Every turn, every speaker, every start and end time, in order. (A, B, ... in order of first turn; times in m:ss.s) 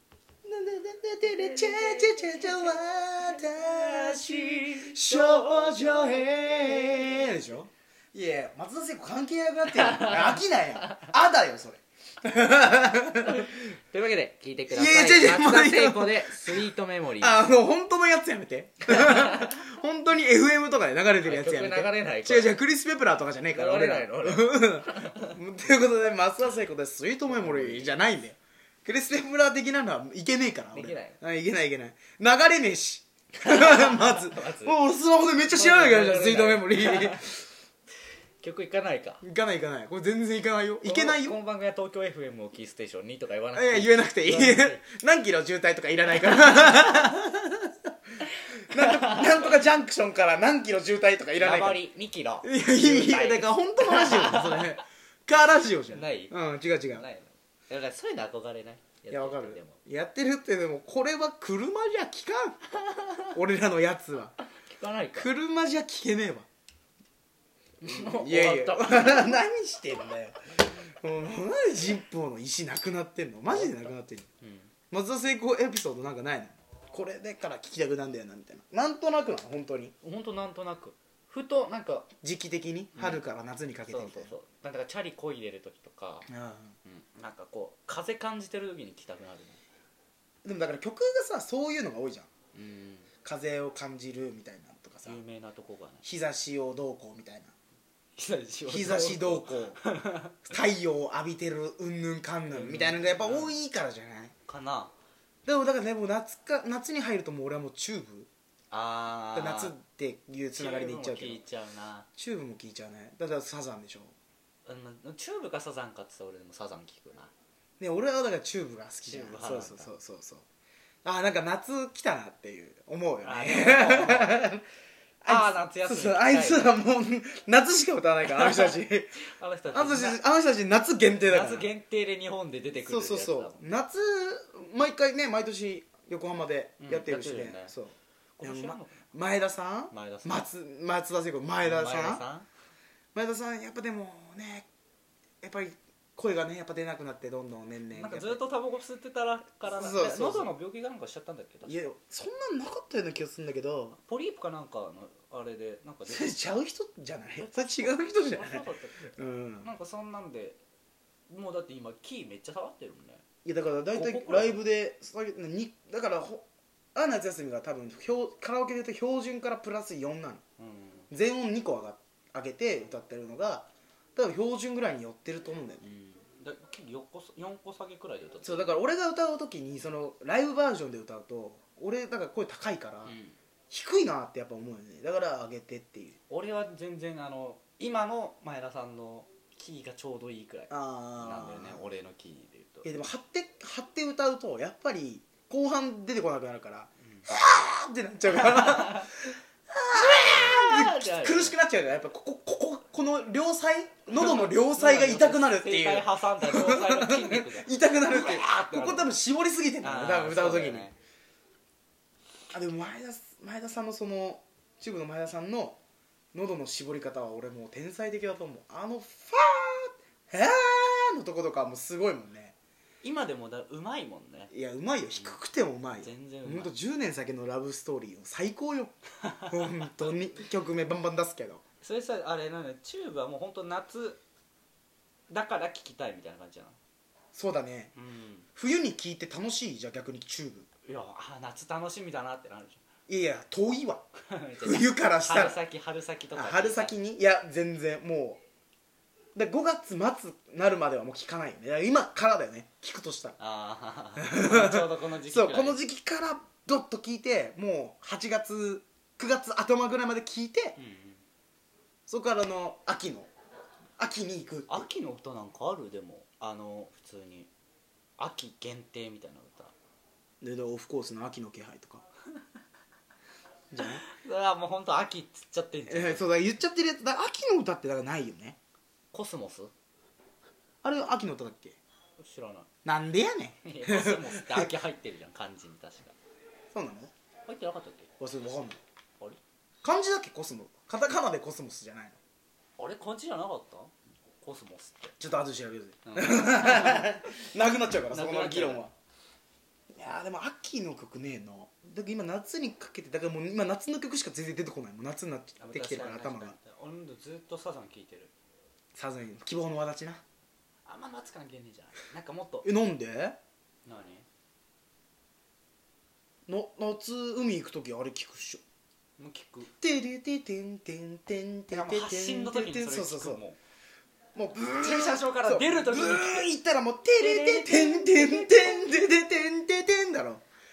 0:00.4-0:13.5 A
0:01.2-0:07.6 B
0:09.8-0:10.3 B
0:13.2-0:17.4 B
0:14.7-0:37.3 A
0:18.9-0:19.5 B
0:21.2-0:22.5 B
0:23.5-0:25.4 B
0:27.3-0:28.1 B
0:30.7-0:31.2 B
0:33.4-0:34.8 B
0:35.5-0:37.3 B
0:38.4-0:39.2 B
0:39.2-0:41.4 A
0:40.8-0:44.8 B
0:43.5-0:47.7 A
0:48.7-0:51.8 A
0:48.7-0:49.4 B
0:51.4-0:54.7 B
0:52.4-0:57.1 A
0:55.9-0:56.4 B
0:56.9-0:59.8 B
0:59.1-1:02.6 A
1:02.8-1:03.3 B
1:03.3-1:04.3 A
1:04.6-1:05.3 B
1:05.1-1:06.4 A
1:07.8-1:09.4 B
1:07.8-1:14.3 A
1:13.5-1:14.7 B
1:14.9-1:19.9 A
1:20.0-1:22.1 B
1:22.2-1:24.3 A
1:22.9-1:23.2 B
1:23.9-1:26.3 B
1:26.3-1:26.8 A
1:26.8-1:29.6 B
1:30.4-1:32.3 A
1:32.5-1:33.1 B
1:33.2-1:35.2 A
1:35.0-1:36.0 B
1:36.0-1:37.5 A
1:38.2-1:40.5 B
1:38.6-1:39.8 A
1:40.4-1:44.3 A
1:42.5-1:43.5 B
1:44.5-1:44.9 B
1:45.4-1:48.3 A
1:48.7-1:49.7 B
1:49.3-1:51.4 A
1:50.5-1:52.1 B
1:52.2-1:54.1 A
1:54.6-1:57.3 B
1:57.8-2:00.4 A
1:59.0-1:59.9 B
2:01.0-2:04.6 A
2:03.2-2:04.4 B
2:05.2-2:09.1 A
2:05.2-2:06.8 B
2:08.3-2:08.7 B
2:09.2-2:10.2 B
2:09.7-2:11.7 A
2:11.2-2:13.6 B
2:12.8-2:22.2 A
2:16.8-2:17.7 B
2:18.4-2:19.0 B
2:19.9-2:20.4 B
2:21.6-2:22.5 B
2:23.1-2:24.7 A
2:25.4-2:28.4 A
2:27.9-2:31.8 B
2:29.6-2:30.5 A
2:31.6-2:34.0 A
2:34.0-2:36.3 B
2:36.0-2:39.7 A
2:37.4-2:40.6 B
2:41.3-2:43.2 B
2:43.4-2:46.4 A
2:43.9-2:44.6 B
2:46.9-2:50.4 A
2:50.6-2:51.1 B
2:51.1-2:55.9 A
2:55.8-2:58.8 B
2:58.4-3:03.1 A
3:03.0-3:03.4 B
3:03.7-3:06.2 A
3:06.3-3:13.0 B
3:10.7-3:11.8 A
3:12.8-3:30.9 A
3:18.3-3:19.1 B
3:19.9-3:21.6 B
3:24.1-3:29.2 B
3:29.8-3:31.0 B
3:32.5-3:35.8 A
3:36.3-3:42.5 A
3:43.0-3:44.5 B
3:44.5-3:48.9 A
3:46.0-3:46.7 B
3:49.5-3:51.6 A
3:51.8-3:54.2 B
3:55.3-3:56.8 B
3:57.3-3:57.9 A
3:57.9-3:58.5 B
3:58.6-4:00.7 A
4:00.8-4:02.8 B
4:03.1-4:04.0 A
4:04.3-4:06.9 B
4:04.6-4:05.6 A
4:06.3-4:08.4 A
4:09.3-4:13.4 A
4:13.4-4:15.8 B
4:14.2-4:20.8 A
4:20.8-4:21.2 B
4:22.1-4:23.3 A
4:24.0-4:24.8 A
4:24.7-4:27.5 B
4:28.2-4:29.7 B
4:30.4-4:32.0 A
4:33.7-4:34.0 A
4:33.8-4:36.3 B
4:35.9-4:38.6 A
4:39.1-4:39.7 B
4:40.8-4:41.8 A
4:42.2-4:42.7 B
4:42.8-4:44.7 A
4:43.6-4:46.2 B
4:46.7-4:47.1 A
4:47.5-4:48.1 B
4:48.2-4:48.8 A
4:49.8-4:52.2 A
4:52.8-4:55.1 B
4:55.2-4:58.9 A
4:56.0-4:57.2 B
4:58.0-4:58.8 B
4:59.9-5:06.6 A
5:05.6-5:08.3 B
5:08.9-5:10.2 A
5:10.8-5:12.7 B
5:12.6-5:13.4 A
5:13.8-5:14.2 B
5:16.5-5:18.6 A
5:19.2-5:19.7 B
5:19.8-5:23.4 A
5:21.7-5:23.6 B
5:24.3-5:30.4 A
5:24.6-5:26.5 B
5:27.2-5:28.8 B